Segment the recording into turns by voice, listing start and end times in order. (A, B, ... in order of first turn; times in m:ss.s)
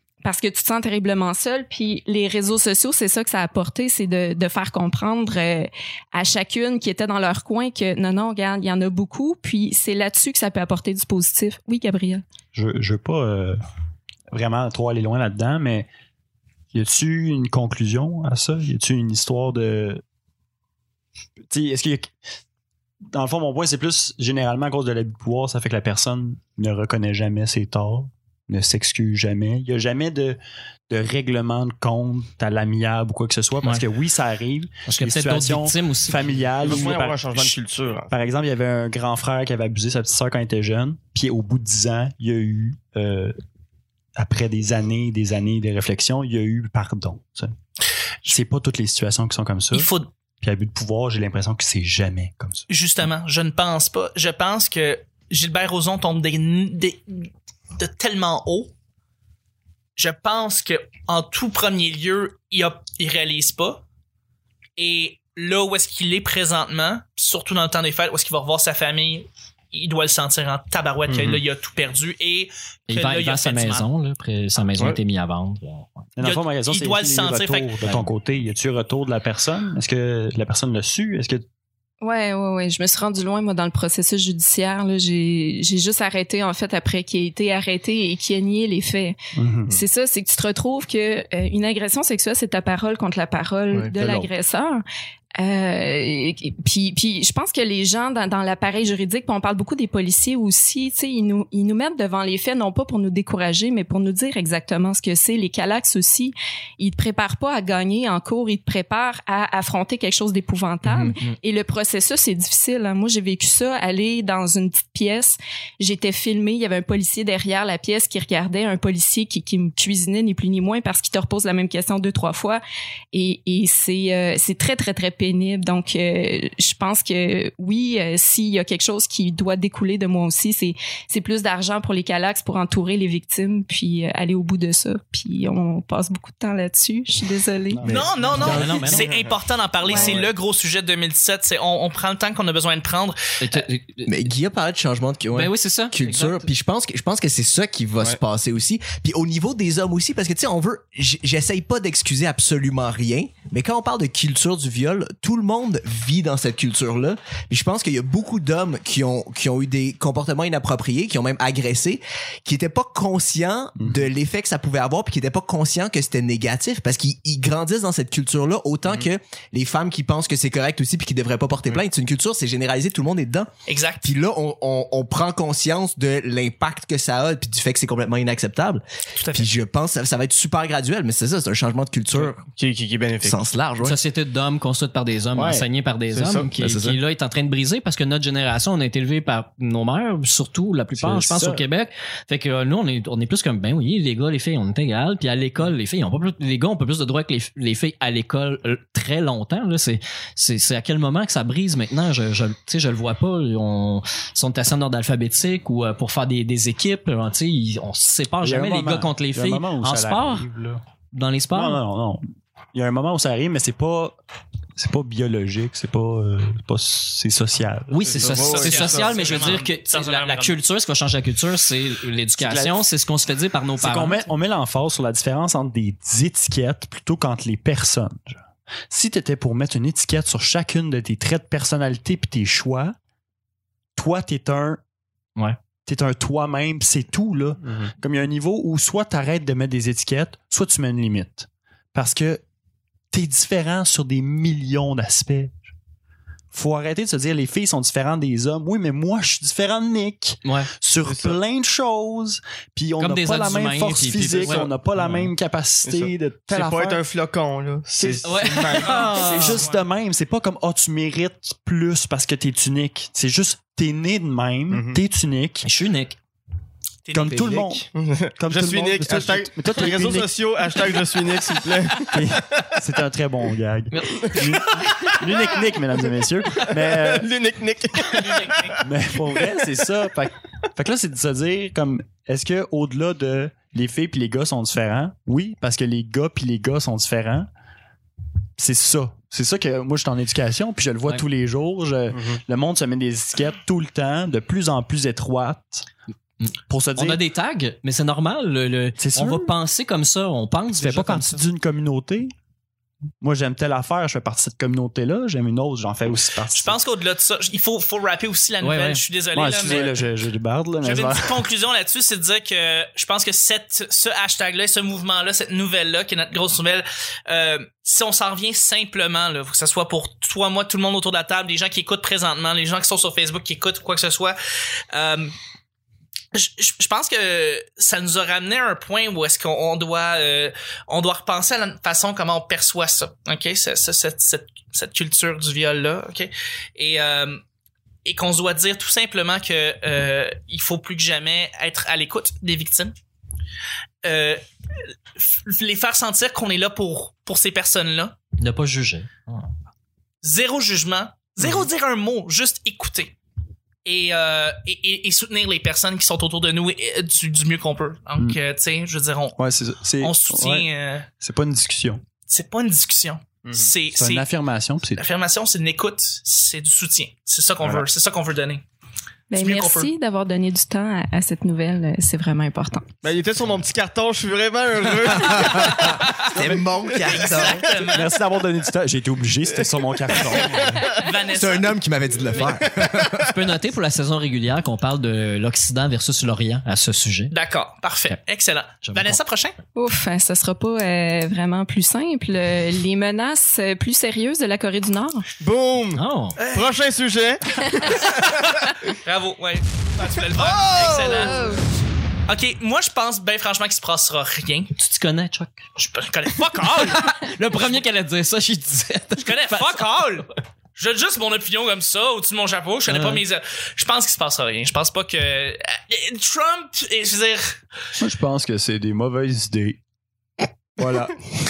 0:00.2-0:12.2 A
0:12.5-0:13.6 B
0:14.3-0:15.9 B
0:16.7-0:20.0 B
0:21.5-0:22.1 B
0:23.1-0:43.3 B
0:34.8-0:36.9 C
0:36.6-0:38.1 D
0:44.2-0:47.5 B
0:48.2-0:52.6 B
0:49.7-0:50.1 E
0:52.7-0:58.7 E
1:00.0-1:03.8 E
1:04.8-1:13.9 E
1:11.1-1:11.4 D
1:12.9-1:16.1 C
1:16.2-1:21.4 B
1:16.2-1:17.7 E
1:22.0-1:29.2 A
1:29.4-1:29.8 B
1:29.7-1:34.8 A
1:33.7-1:34.2 D
1:35.4-2:02.6 A
1:50.8-1:51.4 C
2:03.1-2:17.8 A
2:17.7-2:19.0 B
2:17.8-2:19.3 D
2:17.8-2:23.6 E
2:18.3-2:19.1 C
2:19.8-2:20.3 D
2:19.9-2:20.1 A
2:23.4-2:24.2 C
2:24.0-2:53.5 F
2:25.3-2:26.5 C
2:43.8-2:44.0 B
2:53.7-2:54.1 E
2:54.0-3:02.4 F
2:59.2-2:59.5 E
3:02.2-3:03.4 D
3:03.2-3:04.0 F
3:03.8-3:30.5 C
3:05.4-3:06.7 D
3:06.6-3:07.0 F
3:10.9-3:11.6 B
3:28.4-3:30.8 B
3:31.1-3:31.8 C
3:31.5-3:32.2 B
3:32.7-3:34.2 B
3:34.8-3:38.4 B
3:37.9-3:44.2 C
3:38.1-3:39.6 D
3:38.4-3:40.6 E
3:42.4-3:42.9 B
3:43.8-3:52.9 B
3:54.0-3:54.8 B
3:55.8-4:02.4 B
4:03.1-4:05.6 B
4:06.5-4:17.0 B
4:10.4-4:10.7 C
4:11.1-4:11.4 D
4:13.0-4:15.3 C
4:14.2-4:14.6 D
4:15.8-4:19.3 D
4:17.9-4:25.7 B
4:18.2-4:19.6 C
4:18.8-4:19.8 E
4:24.7-4:25.0 D
4:25.6-4:26.2 C
4:27.0-4:27.5 E
4:27.1-4:30.3 B
4:27.9-4:32.6 D
4:32.1-4:37.3 B
4:33.9-4:34.7 C
4:36.7-4:38.8 D
4:38.2-4:38.7 E
4:38.8-4:47.5 B
4:39.4-4:39.6 D
4:48.6-4:55.9 B
4:56.4-5:01.4 C
4:56.7-4:57.2 B
4:59.0-4:59.5 B
5:00.7-5:02.3 B
5:03.2-5:06.8 B
5:06.5-5:10.0 E
5:08.6-5:09.0 C
5:09.3-5:11.4 B
5:10.8-5:24.4 E
5:24.9-5:25.3 E
5:26.3-5:37.4 E
5:38.0-5:42.9 E
5:44.0-5:44.4 E
5:45.2-5:48.2 E
5:48.4-5:49.5 C
5:50.2-5:53.1 E
5:53.8-5:59.4 E
5:59.4-6:00.7 B
6:00.0-6:01.1 E
6:01.2-6:02.0 B
6:02.3-6:04.3 E
6:03.4-6:03.7 D
6:03.9-6:05.0 B
6:04.9-6:08.6 E
6:09.3-6:12.9 A
6:09.3-6:09.9 E
6:13.0-6:17.3 D
6:15.1-6:17.6 F
6:17.0-6:18.1 E
6:17.8-6:20.9 B
6:20.9-6:21.8 E
6:21.3-6:23.3 F
6:22.4-6:22.9 D
6:23.2-6:27.3 C
6:27.3-6:29.6 E
6:28.8-6:29.2 C
6:29.8-6:35.2 A
6:35.4-6:38.4 D
6:35.9-6:36.4 C
6:36.4-6:36.7 E
6:38.0-6:41.5 E
6:40.0-6:41.6 D
6:41.2-6:41.6 A
6:42.3-6:44.7 E
6:44.8-6:45.7 C
6:45.8-6:47.1 E
6:46.6-6:49.8 C
6:49.2-6:57.6 E
6:52.9-6:53.2 C
6:58.0-6:59.8 B
7:00.8-7:01.1 F